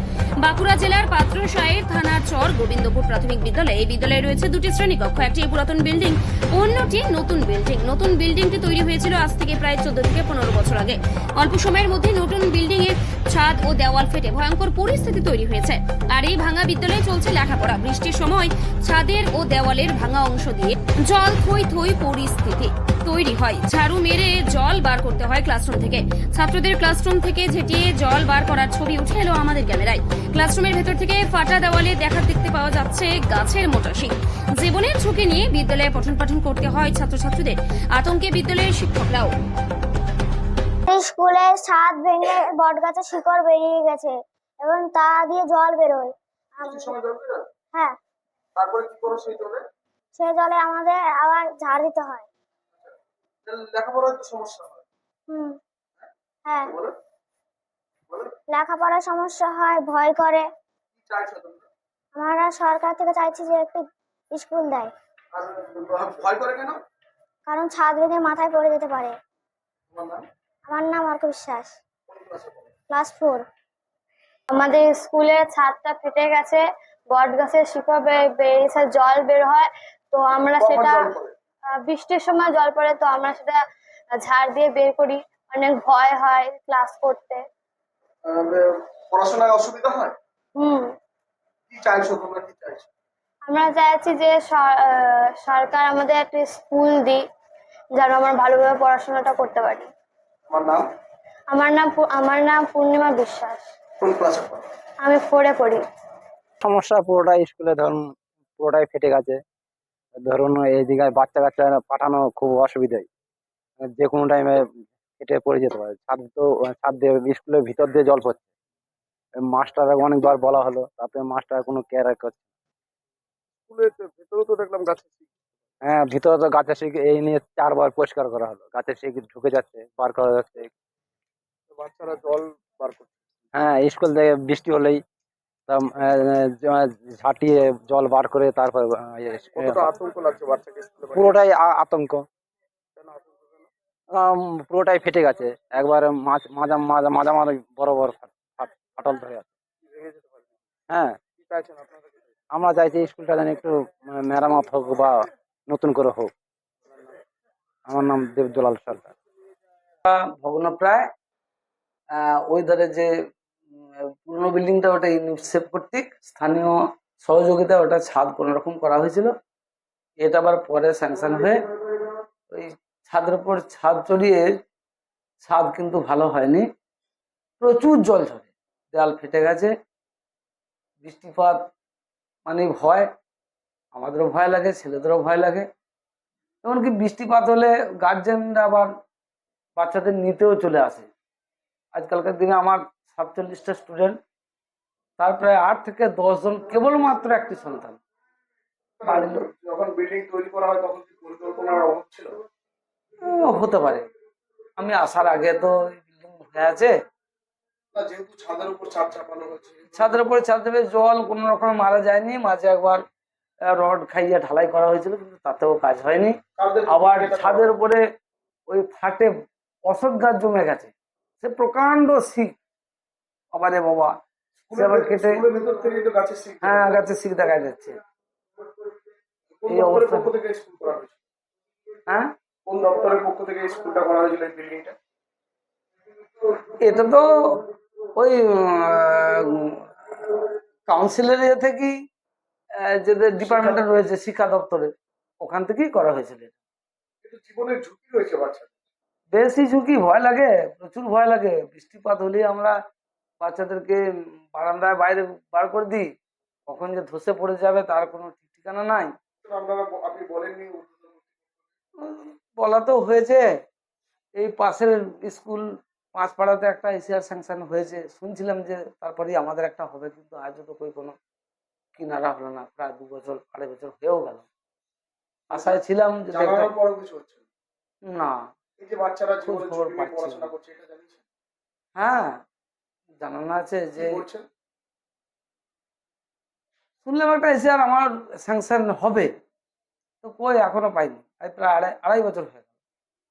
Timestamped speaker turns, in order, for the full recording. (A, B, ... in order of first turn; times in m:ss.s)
0:00.4-0:39.3 A
0:40.9-0:47.0 B
0:46.6-0:47.4 C
0:48.5-0:49.6 C
0:50.2-0:52.3 B
0:53.4-0:54.8 C
0:55.3-0:55.6 B
0:56.4-0:56.7 B
0:56.7-0:56.9 C
0:58.5-1:00.5 B
1:01.0-1:01.7 C
1:02.1-1:04.9 B
1:05.3-1:06.8 C
1:07.5-1:09.2 B
1:09.9-1:10.2 C
1:10.7-1:11.8 B
1:12.1-1:12.7 C
1:12.9-1:13.4 B
1:14.5-1:21.1 D
1:20.6-1:21.3 C
1:21.8-1:23.6 D
1:24.2-1:27.4 D
1:28.2-1:30.2 C
1:30.6-1:30.9 D
1:31.7-1:32.9 C
1:33.5-1:37.2 D
1:38.0-1:39.9 D
1:40.5-1:40.9 C
1:41.5-1:43.7 D
1:44.0-1:44.6 C
1:45.0-1:45.8 D
1:46.6-1:48.0 E
1:48.6-1:49.4 E
1:50.2-1:53.1 E
1:54.0-1:54.6 E
1:55.2-1:58.4 E
1:59.4-2:02.4 E
2:03.7-2:05.3 C
2:05.8-2:10.7 E
2:11.7-2:13.1 C
2:13.5-2:15.0 E
2:15.7-2:19.8 E
2:19.6-2:21.4 C
2:21.1-2:22.2 E
2:23.0-2:23.7 C
2:24.1-2:29.5 E
2:29.8-2:30.6 C
2:30.9-2:31.2 E
2:31.4-2:32.3 C
2:32.5-2:35.2 E
2:35.7-2:36.3 E
2:36.8-2:37.2 C
2:37.9-2:39.1 E
2:40.0-2:41.1 F
2:42.1-2:43.1 F
2:44.0-2:49.3 F
2:50.2-2:54.4 F
2:55.4-2:56.6 F
2:57.6-2:59.7 F
3:01.0-3:01.7 F
3:02.4-3:03.1 F
3:03.9-3:05.7 F
3:06.6-3:08.9 F
3:09.8-3:11.1 F
3:11.9-3:14.2 F
3:15.2-3:18.0 F
3:19.0-3:22.3 C
3:19.0-3:19.4 F
3:23.2-3:24.1 F
3:24.8-3:26.9 F
3:27.9-3:30.3 C
3:29.9-3:33.0 F
3:33.6-3:38.0 F
3:36.6-3:37.7 C
3:38.7-3:42.5 F
3:43.5-3:44.2 F
3:44.7-3:47.1 C
3:44.8-3:45.4 F
3:46.6-3:48.0 F
3:49.5-3:51.2 C
3:49.7-3:50.3 F
3:52.6-3:55.0 C
3:56.8-3:57.6 F
3:58.2-4:01.9 F
4:02.8-4:04.9 F
4:03.4-4:03.9 C
4:05.4-4:06.6 F
4:07.2-4:08.7 C
4:09.3-4:12.7 F
4:13.4-4:14.0 F
4:14.5-4:16.1 F
4:16.7-4:19.1 F
4:19.4-4:21.3 C
4:22.0-4:23.5 F
4:24.4-4:31.1 F
4:32.0-4:34.5 F
4:35.5-4:36.7 F
4:35.5-4:35.8 C
4:36.3-4:37.4 C
4:38.0-4:38.4 F
4:38.8-4:41.2 C
4:39.4-4:40.5 F
4:42.0-4:42.4 F
4:43.2-4:44.2 F
4:44.0-4:44.5 C
4:47.0-4:49.3 F
4:50.2-4:52.6 F